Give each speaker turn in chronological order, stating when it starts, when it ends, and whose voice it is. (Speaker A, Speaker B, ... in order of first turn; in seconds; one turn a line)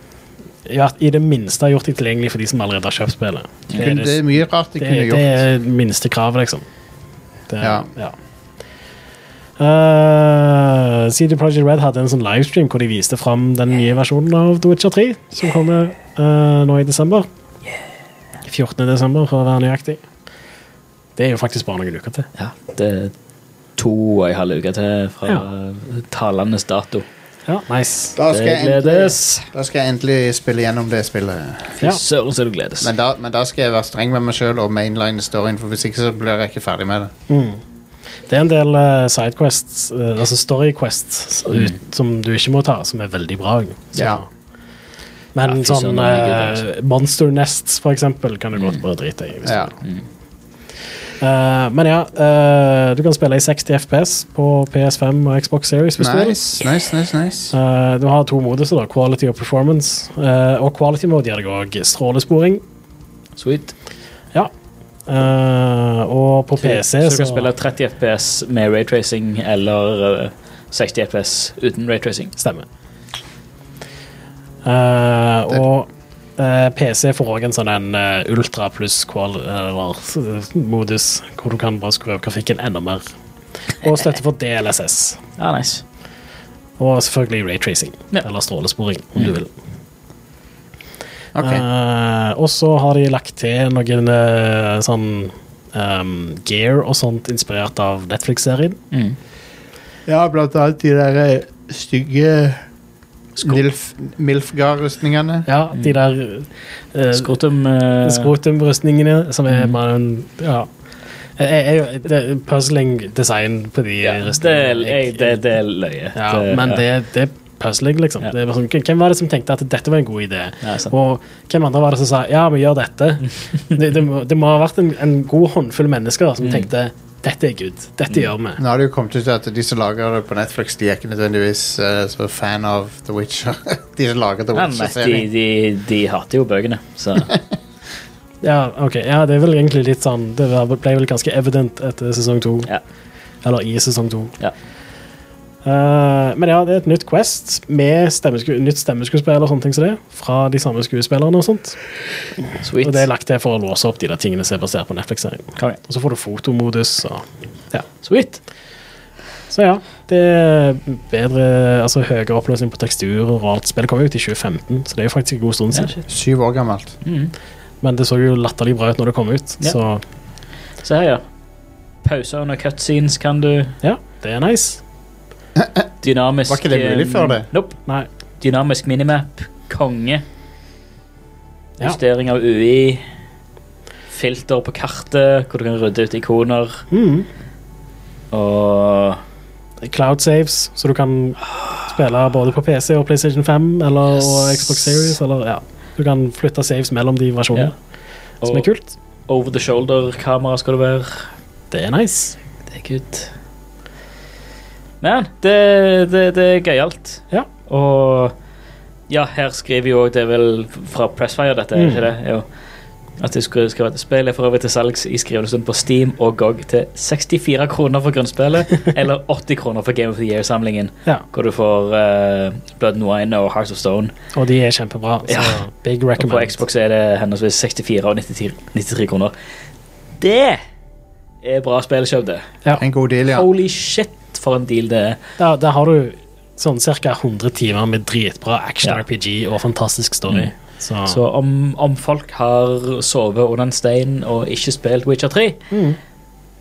Speaker A: 0.7-4.2
Speaker B: 3.7-5.4
Speaker A: 4.8-6.6
Speaker A: 7.5-8.1
Speaker B: 7.6-7.9
Speaker A: 9.6-17.3
Speaker A: 18.4-20.0
Speaker A: 21.2-22.3
Speaker C: 22.4-23.1
Speaker C: 23.8-27.1
Speaker A: 27.5-28.2
Speaker B: 28.1-31.8
Speaker C: 28.3-29.5
Speaker C: 31.8-32.9
Speaker B: 32.8-37.1
Speaker A: 37.3-37.6
Speaker A: 38.3-44.2
Speaker C: 41.5-41.8
Speaker B: 43.9-44.2
Speaker A: 45.3-49.7
Speaker C: 45.4-46.6
Speaker B: 49.4-49.7
Speaker A: 51.2-56.5
Speaker B: 56.0-57.5
Speaker A: 57.5-62.6
Speaker C: 63.4-63.7
Speaker A: 65.1-67.5
Speaker C: 66.6-72.3
Speaker A: 72.4-72.6
Speaker A: 74.6-83.0
Speaker A: 83.8-85.2
Speaker C: 85.4-85.8
Speaker A: 86.8-89.5
Speaker B: 91.3-91.6
Speaker A: 91.4-98.8
Speaker C: 98.9-99.2
Speaker B: 100.1-102.6
Speaker B: 103.4-105.5
Speaker A: 105.5-107.3
Speaker C: 107.1-108.3
Speaker A: 108.0-110.7
Speaker A: 111.4-115.4
Speaker C: 114.0-116.8
Speaker A: 116.1-128.6
Speaker C: 120.6-120.9
Speaker C: 126.4-126.7
Speaker B: 128.6-135.2
Speaker C: 134.5-137.3
Speaker A: 138.4-142.7
Speaker A: 143.4-144.3
Speaker A: 145.6-151.8
Speaker C: 152.6-153.1
Speaker A: 152.8-157.8
Speaker C: 158.0-158.4
Speaker A: 159.5-165.9
Speaker C: 165.7-166.0
Speaker B: 166.1-166.9
Speaker C: 167.0-167.3
Speaker A: 167.8-170.0
Speaker C: 170.8-171.2
Speaker C: 172.0-173.7
Speaker A: 173.8-174.8
Speaker B: 175.6-175.8
Speaker C: 176.0-177.8
Speaker B: 176.5-177.5
Speaker C: 178.4-180.2
Speaker C: 181.8-183.0
Speaker C: 184.1-186.8
Speaker A: 186.9-187.3
Speaker C: 188.3-189.2
Speaker A: 189.8-197.7
Speaker C: 194.1-195.2
Speaker C: 198.4-198.7
Speaker A: 198.5-198.9
Speaker C: 199.3-201.3
Speaker A: 201.7-202.3
Speaker C: 202.7-203.3
Speaker C: 205.0-208.3
Speaker C: 209.1-212.4
Speaker A: 211.8-212.0
Speaker C: 213.2-224.1
Speaker A: 224.3-226.6
Speaker C: 225.3-225.6
Speaker C: 226.2-229.3
Speaker C: 230.2-230.6
Speaker C: 231.4-232.5
Speaker B: 232.8-233.5
Speaker C: 233.3-235.2
Speaker A: 235.4-241.2
Speaker C: 241.1-245.6
Speaker A: 245.7-246.0